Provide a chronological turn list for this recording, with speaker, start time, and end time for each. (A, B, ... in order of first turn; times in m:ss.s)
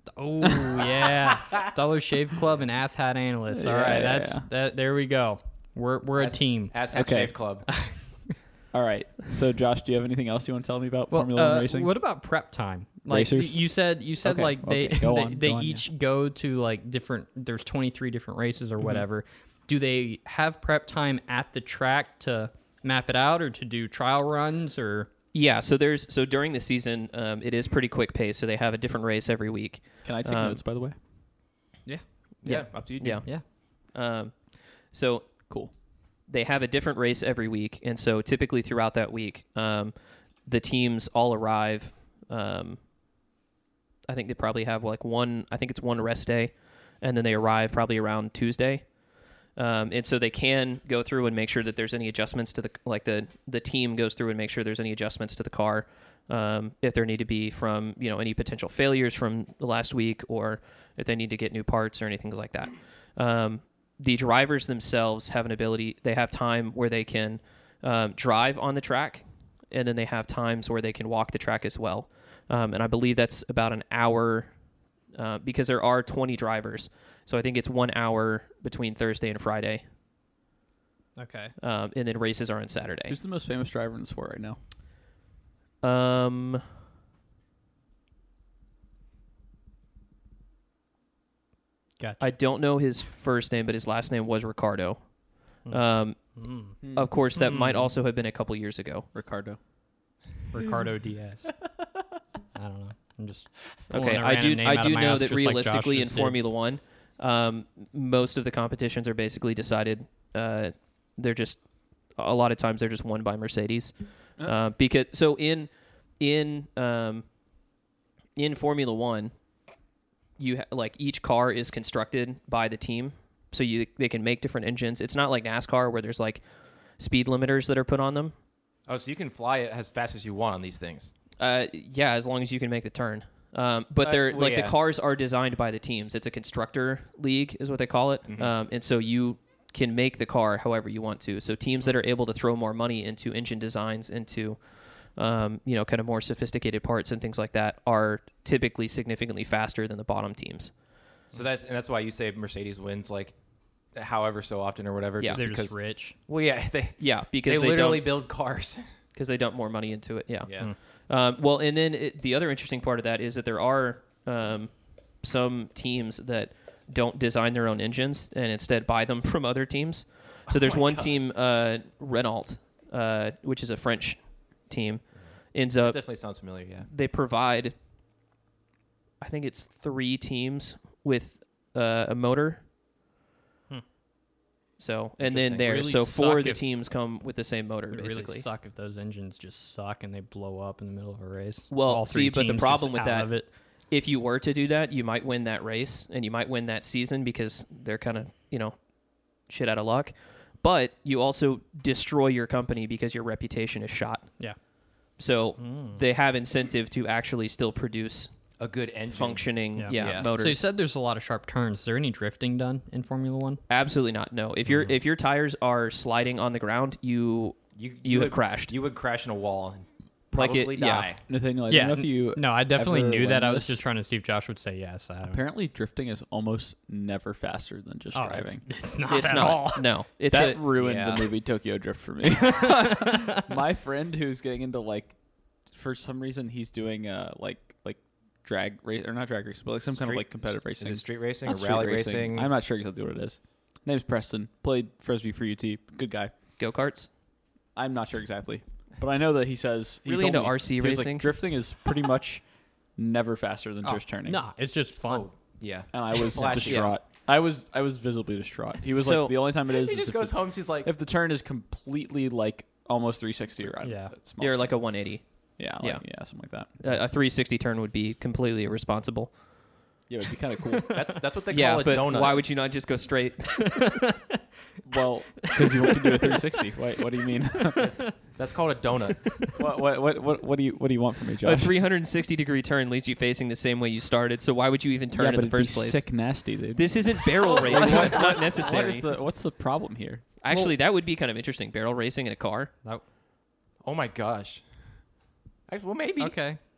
0:00.2-0:06.8 A
0:00.4-0:01.0 B
0:03.5-0:04.5 B
0:06.2-0:07.7 C
0:06.9-0:07.3 B
0:07.7-0:08.0 A
0:08.7-0:11.9 B
0:11.1-0:25.1 A
0:13.1-0:13.6 B
0:14.2-0:15.8 B
0:18.8-0:19.0 B
0:25.3-0:30.6 D
0:30.0-0:31.0 B
0:31.9-0:32.6 A
0:32.4-0:33.2 C
0:32.4-0:35.3 D
0:35.5-0:35.7 B
0:36.3-0:42.8 D
0:44.1-1:14.6 D
1:15.1-1:19.8 D
1:21.2-1:21.6 A
1:21.6-1:23.2 D
1:23.1-1:24.6 B
1:25.8-1:26.6 D
1:32.0-1:32.3 A
1:32.2-1:39.1 D
1:35.6-1:36.8 A
1:36.8-1:37.1 B
1:37.4-1:37.9 A
1:39.1-1:39.6 B
1:40.5-1:41.5 A
1:42.6-1:46.4 A
1:43.9-1:51.6 D
1:52.1-1:57.3 D
1:58.4-1:59.3 D
2:00.4-2:06.4 D
2:07.0-2:08.3 D
2:08.9-2:11.1 C
2:11.4-2:30.7 D
2:14.0-2:14.8 C
2:31.3-2:33.4 C
2:34.0-2:38.8 C
2:35.3-2:36.2 A
2:37.0-2:38.1 D
2:39.1-2:40.5 D
2:40.5-2:40.7 C
2:41.1-2:56.0 D
2:50.5-2:51.1 C
2:55.8-2:56.9 C
2:56.9-2:57.7 D
2:59.2-3:02.6 D
3:04.8-3:08.5 D
3:05.2-3:06.6 A
3:07.9-3:13.5 A
3:11.7-3:18.8 D
3:19.4-3:24.3 D
3:25.2-3:28.3 D
3:25.6-3:26.0 A
3:28.6-3:30.3 C
3:29.1-3:30.6 D
3:29.8-3:33.6 A
3:33.7-3:38.7 D
3:37.8-3:41.2 C
3:40.3-3:41.1 D
3:41.3-3:43.8 B
3:41.7-3:45.4 A
3:45.2-3:48.6 B
3:48.1-3:49.8 A
3:49.1-3:50.6 D
3:50.3-3:55.2 B
3:50.8-3:51.3 C
3:52.4-3:53.4 A
3:55.7-4:06.3 B
3:59.9-4:02.5 C
4:06.6-4:07.1 D
4:07.8-4:12.4 B
4:10.1-4:11.3 D
4:13.0-4:14.4 B
4:13.8-4:15.3 A
4:15.1-4:17.0 C
4:15.9-4:24.8 B
4:16.6-4:16.9 D
4:19.0-4:19.4 D
4:19.6-4:20.9 C
4:23.8-4:24.1 A
4:24.4-4:25.2 D
4:25.6-4:26.7 B
4:25.8-4:26.1 D
4:26.8-4:29.4 D
4:30.1-4:31.0 B
4:30.9-4:32.5 C
4:31.5-4:33.8 D
4:33.6-4:34.4 A
4:34.8-4:38.0 B
4:35.4-4:38.1 A
4:37.8-4:39.5 C
4:39.2-4:39.5 A
4:39.5-4:41.7 B
4:41.4-4:46.1 D
4:45.2-4:50.2 B
4:46.7-4:49.1 D
4:47.4-4:48.8 C
4:50.4-4:52.7 D
4:53.8-4:54.6 C
4:55.7-4:56.4 C
4:56.2-4:56.6 A